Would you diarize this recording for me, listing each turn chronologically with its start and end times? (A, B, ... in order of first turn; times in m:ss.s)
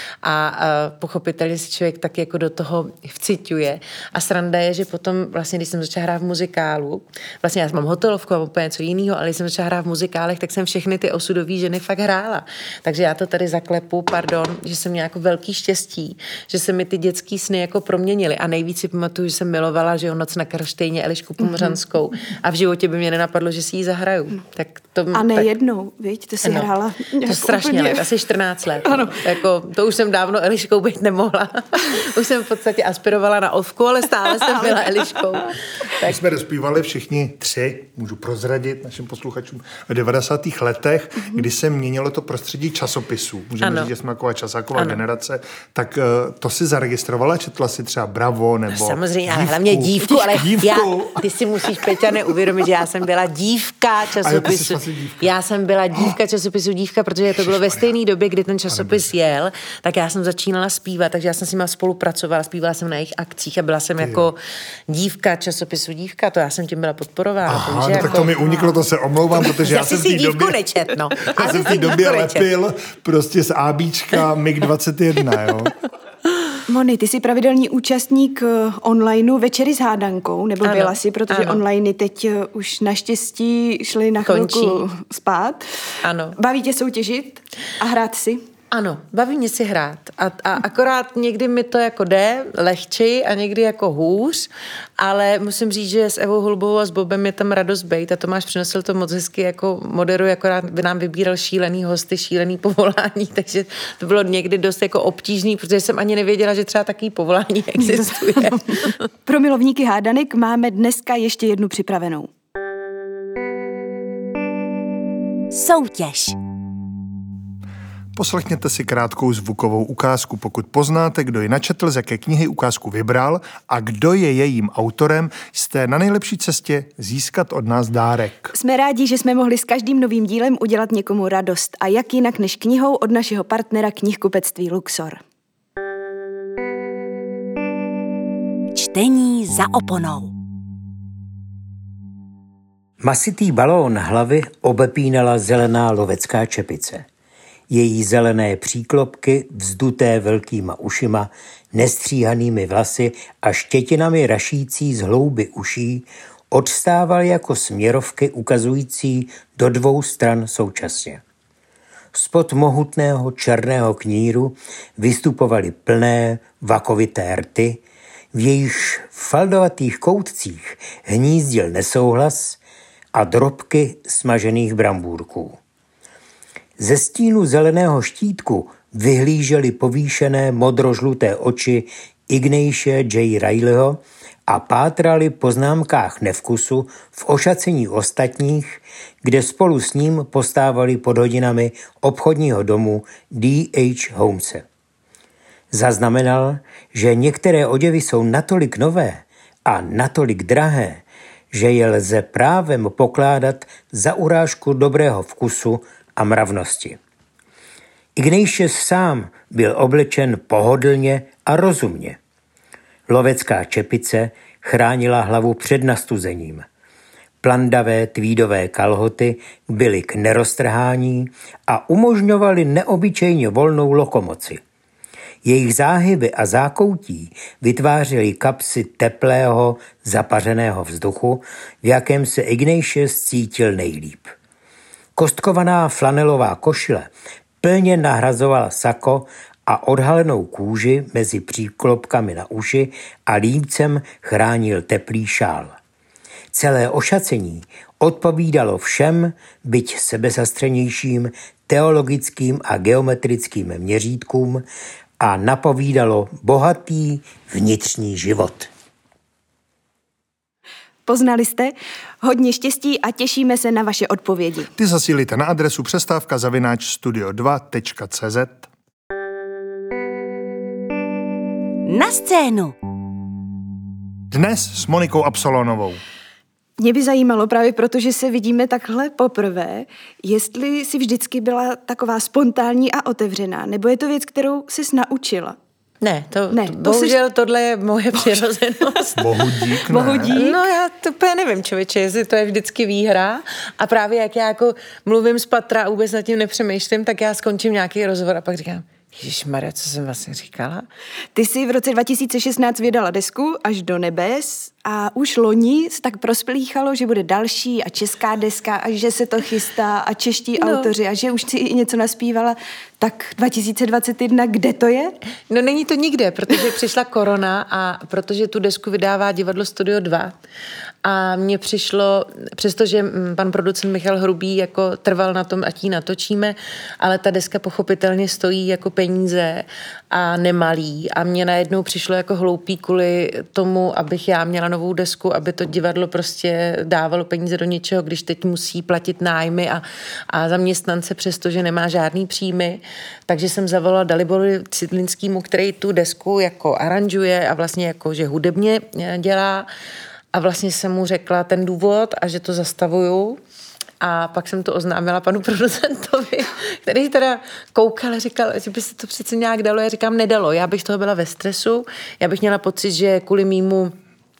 0:00.2-0:25.5 A
0:21.4-0:21.7 B
0:25.1-0:28.0 B
0:26.4-0:26.7 A
0:27.2-0:36.2 A
0:28.8-0:29.2 B
0:34.4-0:34.9 B
0:36.0-0:51.2 C
0:43.6-0:43.9 A
0:44.7-0:45.0 A
0:48.7-1:04.4 A
0:54.2-0:55.3 C
0:57.4-0:57.8 C
0:58.7-0:59.1 C
1:04.0-1:04.3 C
1:04.9-1:08.8 A
1:07.4-1:10.6 C
1:09.4-1:12.5 A
1:11.2-1:15.7 C
1:16.7-1:25.6 B
1:20.6-1:21.6 A
1:24.2-1:24.8 A
1:26.0-1:26.4 A
1:26.4-1:28.4 B
1:28.7-1:34.5 A
1:35.0-1:48.9 A
1:47.8-1:52.3 B
1:55.5-1:56.4 D
1:58.2-2:08.5 C
2:08.5-2:15.2 B
2:18.7-2:20.3 D
2:23.0-2:27.0 E
2:27.7-2:41.2 E
2:42.1-2:47.8 E
2:48.3-2:52.6 E
2:53.1-2:55.6 E
2:56.8-3:14.6 E
3:15.7-3:27.0 E
3:28.2-3:32.2 E
3:33.1-3:36.6 E
3:37.4-3:44.6 E
3:45.4-3:54.3 E
3:55.2-3:57.1 E
3:57.6-4:05.8 E
4:06.5-4:14.6 E
4:15.2-4:18.7 E
4:21.0-4:24.7 B
4:24.8-4:28.7 C
4:31.8-4:32.7 D
4:34.3-4:36.0 C
4:36.8-4:45.6 B
4:46.0-4:49.2 A
4:46.5-4:47.2 B
4:49.2-4:50.4 C
4:49.9-4:50.6 B
4:50.3-5:00.8 A
5:01.3-5:15.1 B
5:10.6-5:10.9 A
5:15.5-5:20.3 A
5:21.0-5:49.7 A
5:50.3-5:53.4 A
5:54.0-6:03.9 A